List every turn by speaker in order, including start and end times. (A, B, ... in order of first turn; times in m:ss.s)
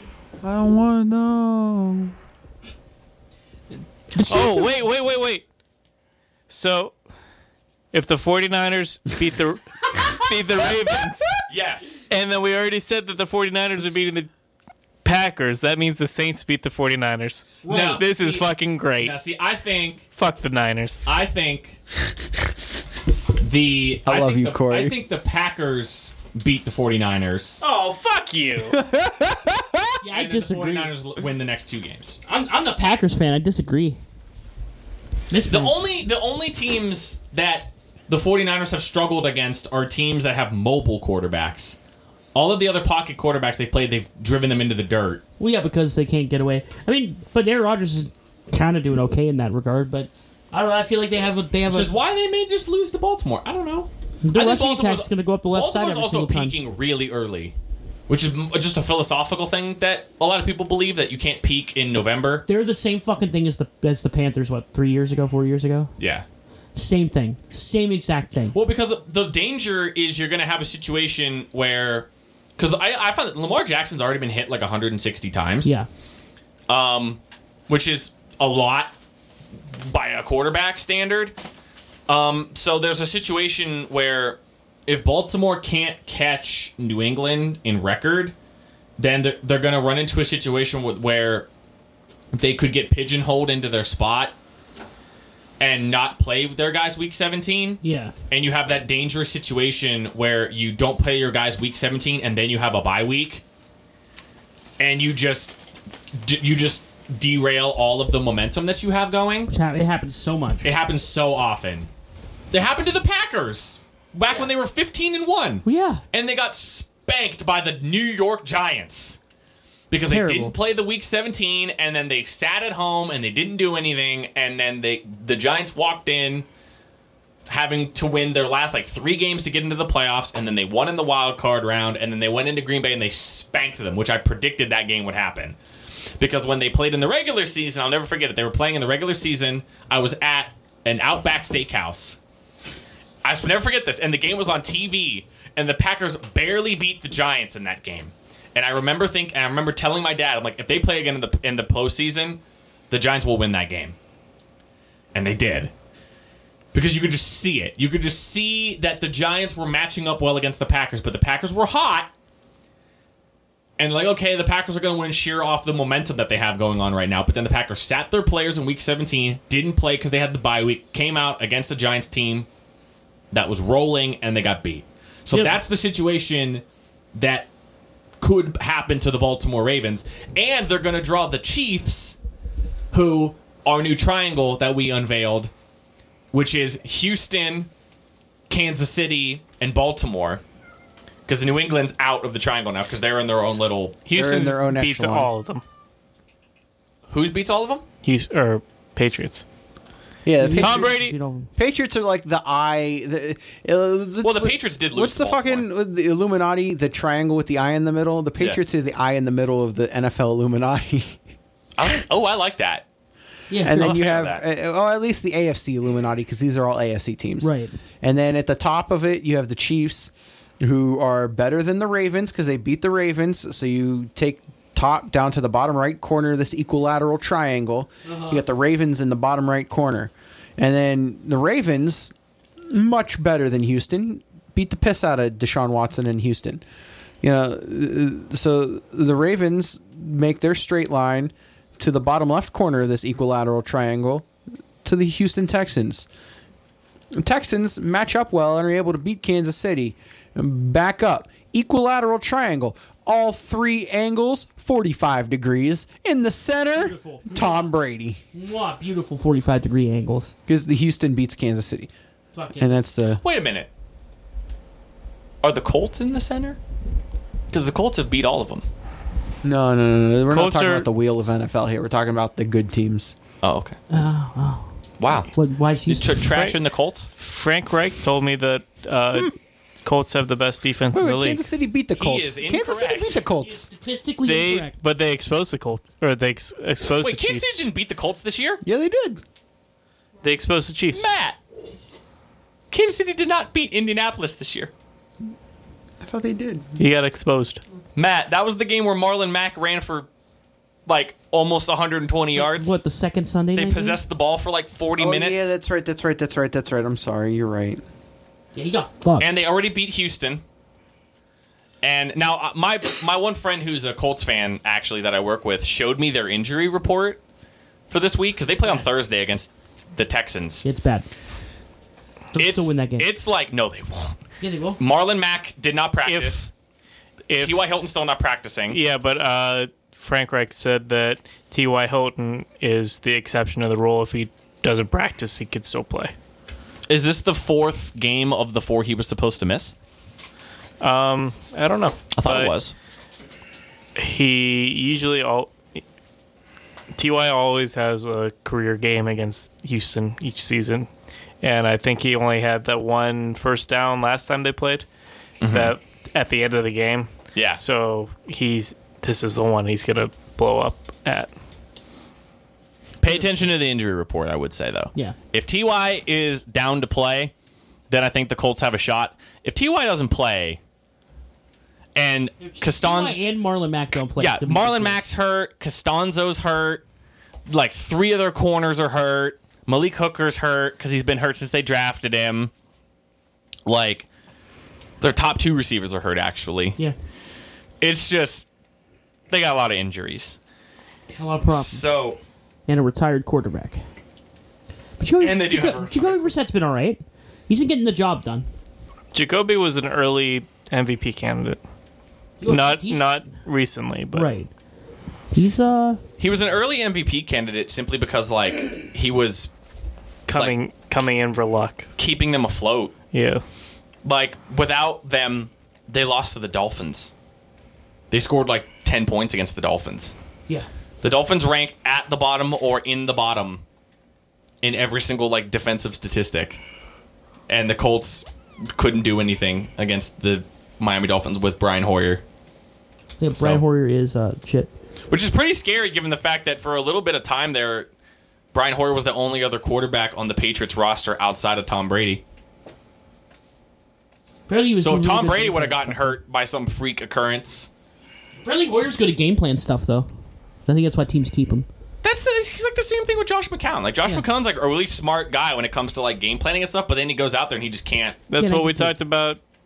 0:00.4-0:02.1 A
0:04.1-0:04.7 B
0:04.3-0:05.4 C
0:06.5-0:07.0 C
0:07.9-0:11.4 C
0:11.4-0:12.1 D
0:12.1-0:14.3 C
0:15.0-0:19.2 C
0:17.6-0:18.1 B
0:17.7-0:18.5 D
0:19.0-0:20.1 D
0:20.2-0:21.1 C
0:21.1-0:21.8 D
0:23.4-0:27.6 D
0:24.0-0:25.0 A
0:27.6-0:28.8 C
0:28.7-0:30.0 A
0:30.0-0:30.9 B
0:30.1-0:32.2 D
0:32.3-0:34.0 B
0:35.3-0:35.8 B
0:35.5-0:41.8 D
0:42.3-0:45.2 D
0:45.4-0:51.9 B
0:51.7-0:57.6 D
0:54.2-0:56.6 B
0:58.1-1:02.4 D
1:02.5-1:05.9 B
1:06.0-1:06.3 D
1:06.8-1:08.6 B
1:08.5-1:15.7 D
1:16.7-1:18.9 D
1:19.8-1:21.4 D
1:22.1-1:28.3 D
1:29.0-1:31.5 D
1:32.3-1:34.3 D
1:35.6-1:43.4 D
1:37.8-1:38.1 B
1:44.8-1:49.5 D
1:49.5-1:50.7 B
1:50.6-1:51.9 D
1:52.5-1:59.2 D
1:55.6-1:56.0 B
1:59.9-2:06.5 D
1:59.9-2:00.6 B
2:07.5-2:15.6 D
2:16.2-2:22.2 D
2:23.2-2:34.0 D
2:35.1-2:35.7 D
2:36.7-2:42.1 D
2:43.8-2:52.5 D
2:53.3-2:56.6 D
2:55.3-2:55.6 B
2:57.2-2:57.5 D
2:58.2-3:02.2 D
3:02.9-3:05.5 D
3:06.3-3:07.7 D
3:08.5-3:10.4 D
3:11.3-3:14.0 D
3:14.0-3:15.6 C
3:14.2-3:15.3 A
3:17.1-3:17.9 D
3:18.0-3:19.4 C
3:20.2-3:21.0 A
3:20.4-3:21.5 B
3:20.6-3:21.1 C
3:21.6-3:31.2 A
3:24.2-3:25.7 D
3:31.8-3:32.8 D
3:33.5-3:34.0 B
3:33.6-3:37.5 A
3:33.7-3:34.4 D
3:37.4-3:37.8 B
3:38.0-3:52.1 A
3:48.0-3:48.4 B
3:52.7-3:56.6 A
3:57.2-4:04.3 A
4:04.8-4:06.1 A
4:07.2-4:18.2 A
4:16.7-4:17.7 B
4:18.3-4:20.4 B
4:20.5-4:21.9 A
4:22.3-4:22.9 B
4:22.6-4:23.2 A
4:23.2-4:23.7 D
4:25.4-4:26.6 D
4:27.5-4:28.6 D
4:29.4-4:33.2 A
4:30.3-4:30.9 C
4:33.4-4:33.8 D
4:33.9-4:34.7 B
4:35.0-4:35.3 D
4:35.3-4:36.3 B
4:35.9-4:37.1 D
4:36.3-4:36.6 C
4:37.2-4:41.5 C
4:40.9-4:43.7 A
4:42.0-4:43.2 D
4:43.2-4:44.8 B
4:44.2-4:47.7 C
4:47.0-4:48.6 D
4:48.6-4:49.2 A
4:50.2-4:51.1 C
4:50.9-4:51.4 D
4:52.7-4:54.7 D
4:56.0-4:56.8 A
4:56.8-4:57.6 C
4:58.0-5:00.1 D
5:00.9-5:02.7 D
5:02.3-5:04.0 B
5:03.6-5:05.5 D
5:05.0-5:07.8 A
5:08.6-5:09.3 B
5:09.2-5:10.4 D
5:11.8-5:17.2 D
5:17.9-5:20.6 D
5:20.6-5:21.1 B
5:22.3-5:23.1 B
5:22.4-5:24.2 D
5:24.4-5:24.8 B
5:24.8-5:26.5 D
5:26.1-5:26.5 C
5:27.3-5:27.6 C
5:27.4-5:28.8 D
5:28.7-5:36.1 C
5:36.9-5:39.7 D
5:40.8-5:42.6 C
5:42.2-5:42.7 D
5:44.0-5:45.6 C
5:46.9-5:50.9 C
5:51.4-5:54.9 C
5:55.4-5:55.7 D
5:55.4-6:01.3 C
5:57.4-5:57.6 D
6:03.0-6:07.3 D
6:07.9-6:10.6 D
6:12.0-6:13.2 D
6:12.4-6:15.0 B
6:13.9-6:16.8 D
6:17.5-6:22.5 D
6:23.7-6:24.1 D
6:25.0-6:26.8 D
6:27.8-6:28.5 D
6:29.3-6:30.4 D
6:31.1-6:31.9 B
6:31.5-6:32.2 D
6:32.7-6:33.8 B
6:35.0-6:38.5 B
6:35.2-6:36.2 D
6:39.1-6:41.6 C
6:42.4-6:43.2 B
6:42.5-6:44.3 C
6:44.1-6:44.5 B
6:45.3-6:46.0 B
6:46.2-6:49.5 D
6:50.3-6:51.9 C
6:52.0-6:52.9 D
6:53.1-6:53.4 C
6:54.0-6:57.1 D
6:58.1-7:00.2 D
7:01.0-7:03.6 D
7:04.6-7:06.6 D
7:07.5-7:12.2 D
7:13.2-7:14.7 B
7:13.3-7:13.6 D
7:15.1-7:17.9 D
7:18.5-7:22.2 D
7:24.5-7:26.2 B
7:24.8-7:27.7 D
7:28.4-7:30.1 B
7:30.7-7:31.7 B
7:32.0-7:38.2 D
7:38.3-7:39.4 C
7:38.4-7:39.0 B